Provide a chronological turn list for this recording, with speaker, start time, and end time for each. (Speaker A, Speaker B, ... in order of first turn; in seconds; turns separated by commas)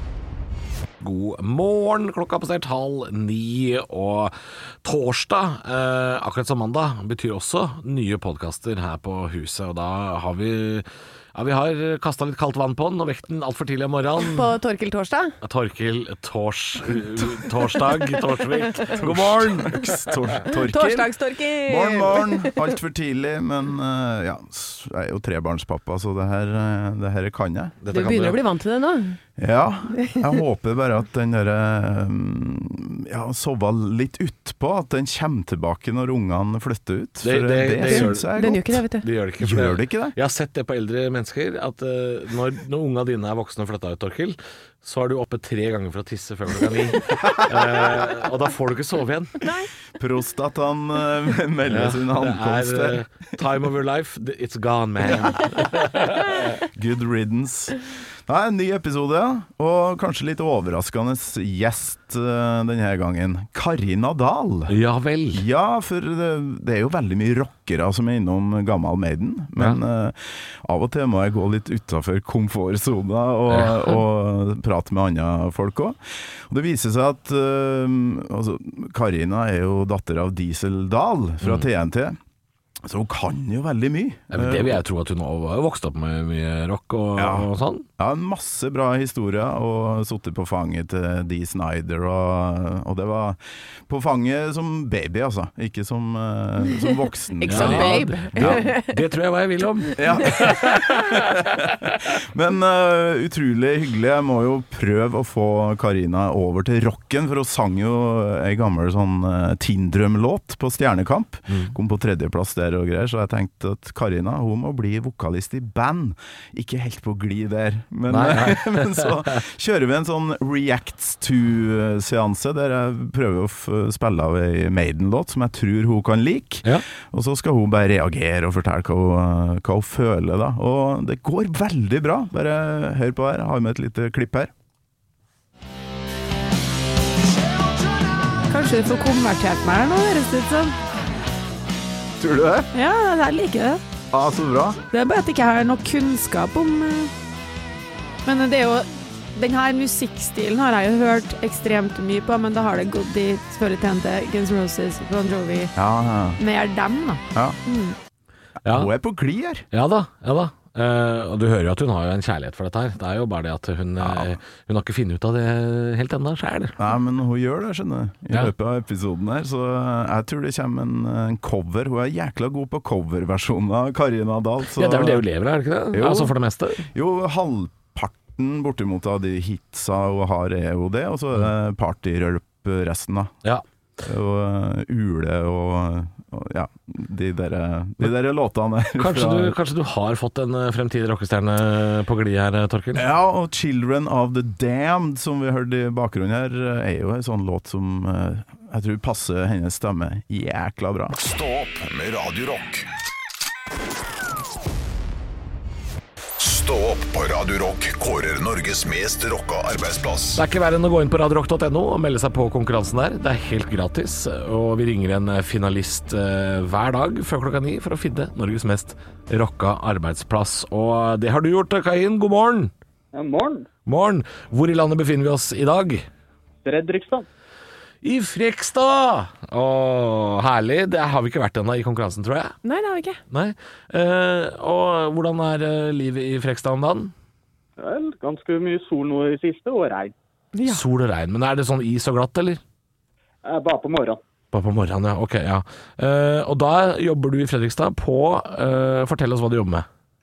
Speaker A: 1.0-14.5, Speaker B: 14.2-15.3, Speaker A: 15.4-19.9, Speaker C: 19.0-27.8, Speaker B: 20.7-22.6, Speaker A: 27.8-28.4, Speaker B: 27.9-29.2, Speaker C: 29.4-38.7, Speaker A: 37.2-49.4, Speaker B: 37.9-39.0, Speaker C: 39.4-40.1, Speaker B: 49.4-49.7, Speaker C: 50.0-53.0, Speaker A: 51.7-56.6, Speaker C: 56.7-64.7, Speaker A: 64.7-65.4, Speaker C: 65.3-76.0, Speaker A: 73.5-74.0, Speaker C: 76.5-82.2, Speaker C: 82.8-84.8, Speaker A: 84.3-87.9, Speaker C: 87.2-87.5, Speaker C: 88.0-98.6, Speaker B: 97.4-99.0, Speaker A: 97.5-101.2, Speaker C: 100.0-134.5, Speaker A: 111.5-111.7, Speaker A: 118.1-119.2, Speaker D: 138.5-140.7, Speaker C: 142.2-142.7, Speaker D: 142.7-143.8, Speaker C: 144.1-144.8, Speaker D: 144.9-147.1, Speaker D: 148.2-155.7, Speaker C: 155.8-156.4, Speaker D: 156.4-157.9, Speaker C: 157.3-157.6, Speaker A: 158.7-158.9, Speaker C: 158.7-159.6, Speaker A: 159.7-166.8, Speaker C: 164.0-164.3, Speaker C: 166.8-175.2, Speaker A: 174.7-176.8, Speaker C: 175.9-183.3, Speaker C: 184.0-189.5, Speaker A: 188.9-193.0, Speaker C: 192.9-201.1, Speaker E: 201.1-202.9, Speaker E: 206.4-210.4, Speaker A: 210.3-222.7, Speaker F: 223.1-223.7, Speaker A: 223.8-226.1, Speaker F: 226.6-227.2, Speaker A: 228.0-232.6, Speaker B: 232.6-233.2, Speaker A: 233.3-237.1, Speaker F: 237.8-240.1, Speaker B: 240.5-240.8, Speaker A: 240.7-242.6, Speaker F: 243.4-244.2, Speaker A: 244.5-249.9